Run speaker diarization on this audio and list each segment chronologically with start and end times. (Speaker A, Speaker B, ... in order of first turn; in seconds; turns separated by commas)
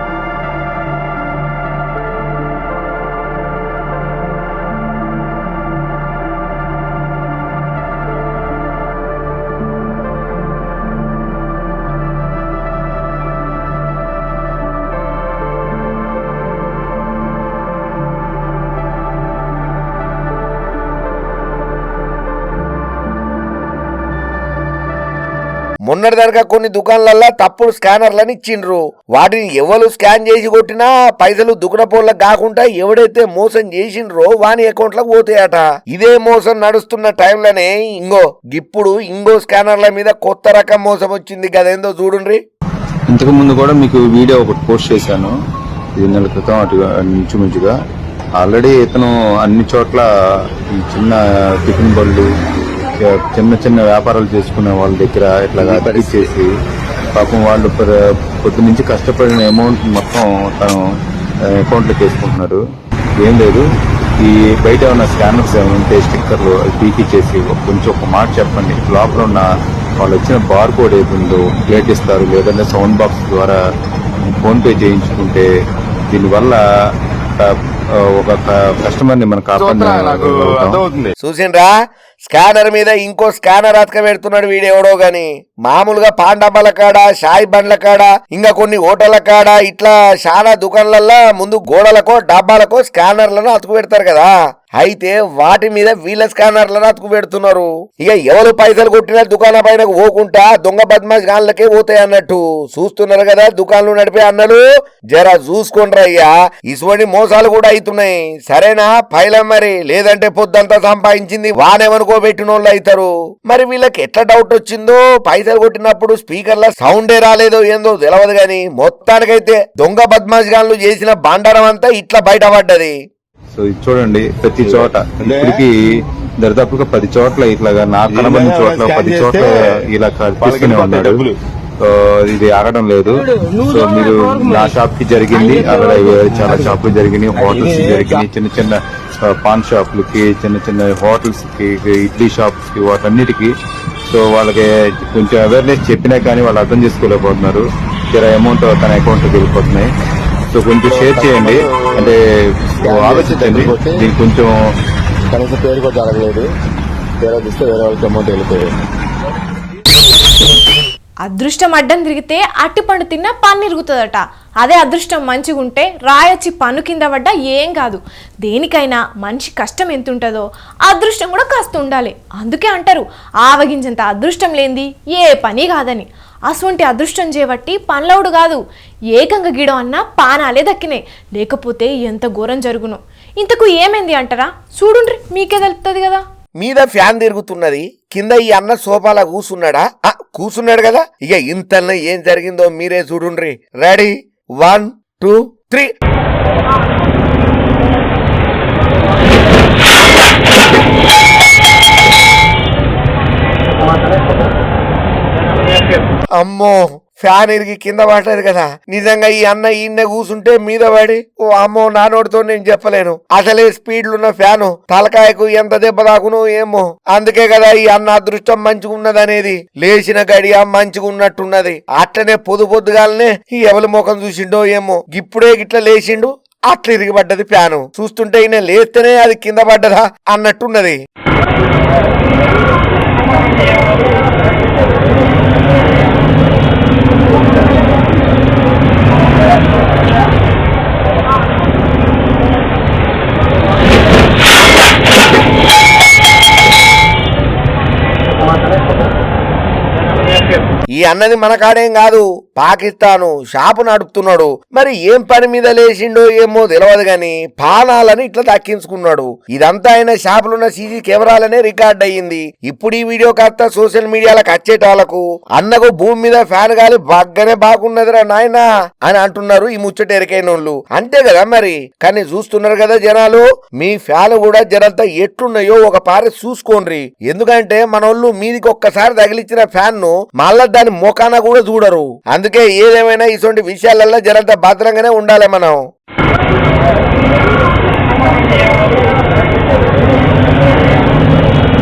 Speaker A: 25.9-42.4, Speaker B: 43.1-45.3, Speaker B: 46.0-47.7, Speaker B: 48.4-50.1, Speaker B: 50.8-52.3, Speaker B: 52.9-56.5, Speaker C: 55.6-56.3, Speaker B: 57.2-57.9, Speaker B: 58.4-60.8, Speaker B: 61.6-62.6, Speaker B: 63.2-63.6, Speaker B: 64.2-69.5, Speaker B: 70.0-73.6, Speaker B: 74.4-75.5, Speaker B: 76.1-76.6, Speaker B: 78.2-80.8, Speaker C: 79.6-81.1, Speaker A: 81.2-81.7, Speaker A: 82.3-123.0, Speaker B: 123.5-125.8, Speaker C: 124.6-125.6, Speaker B: 126.4-131.3, Speaker C: 128.1-129.8, Speaker C: 130.4-131.3, Speaker B: 131.8-143.5, Speaker C: 133.1-134.8, Speaker C: 135.3-136.8, Speaker C: 137.3-138.2, Speaker B: 144.1-149.9, Speaker B: 150.5-152.2, Speaker C: 150.9-152.2, Speaker C: 152.8-154.1, Speaker B: 152.8-154.5, Speaker C: 155.3-156.5, Speaker C: 157.2-158.7, Speaker D: 161.3-178.6, Speaker D: 179.1-186.2, Speaker A: 186.6-195.9, Speaker A: 206.4-231.0, Speaker A: 251.0-285.8